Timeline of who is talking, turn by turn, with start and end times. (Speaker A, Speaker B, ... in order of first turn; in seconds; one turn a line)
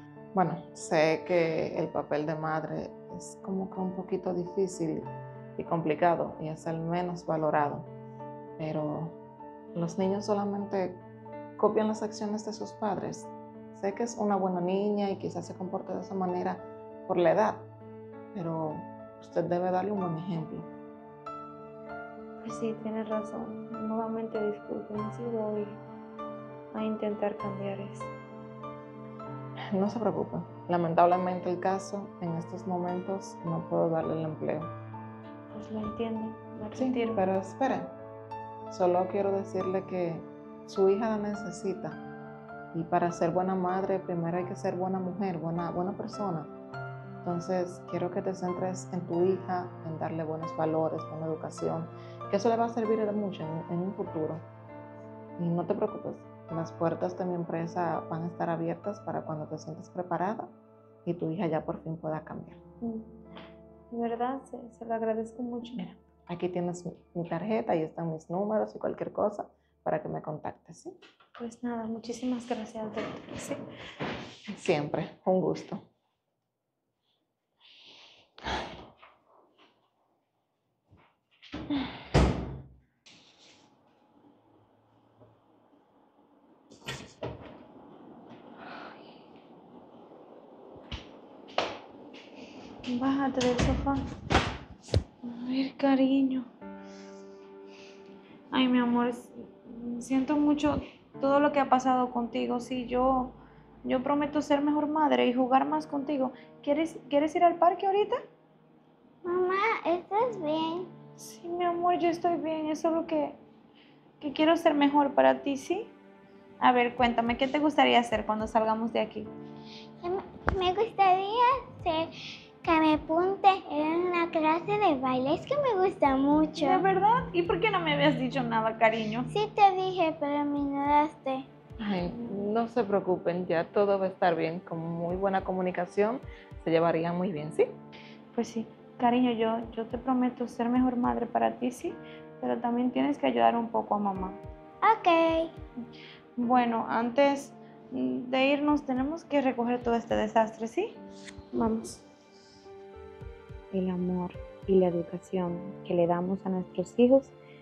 Speaker A: 0.3-7.9
Speaker A: 8.6-9.2
Speaker A: 9.8-11.0
Speaker A: 11.6-17.7
Speaker A: 18.3-20.7
Speaker B: 22.4-25.8
Speaker B: 26.7-28.1
Speaker A: 29.7-34.7
Speaker B: 35.5-37.3
Speaker A: 36.8-37.9
Speaker A: 38.7-42.0
Speaker A: 42.7-46.5
Speaker A: 47.2-54.4
Speaker A: 55.4-60.5
Speaker A: 61.0-62.6
Speaker B: 62.8-63.1
Speaker B: 63.9-65.8
Speaker A: 65.8-70.9
Speaker B: 71.4-73.6
Speaker A: 74.5-75.8
Speaker B: 92.9-94.0
Speaker B: 95.2-96.5
Speaker B: 98.5-108.2
Speaker C: 109.2-110.9
Speaker B: 111.2-113.4
Speaker B: 114.2-115.9
Speaker B: 116.6-119.3
Speaker C: 120.0-122.1
Speaker C: 122.6-126.8
Speaker B: 126.6-129.3
Speaker C: 129.3-131.5
Speaker A: 131.8-137.7
Speaker B: 138.3-144.4
Speaker C: 144.8-145.5
Speaker B: 146.4-150.9
Speaker B: 151.5-152.0
Speaker B: 153.7-157.3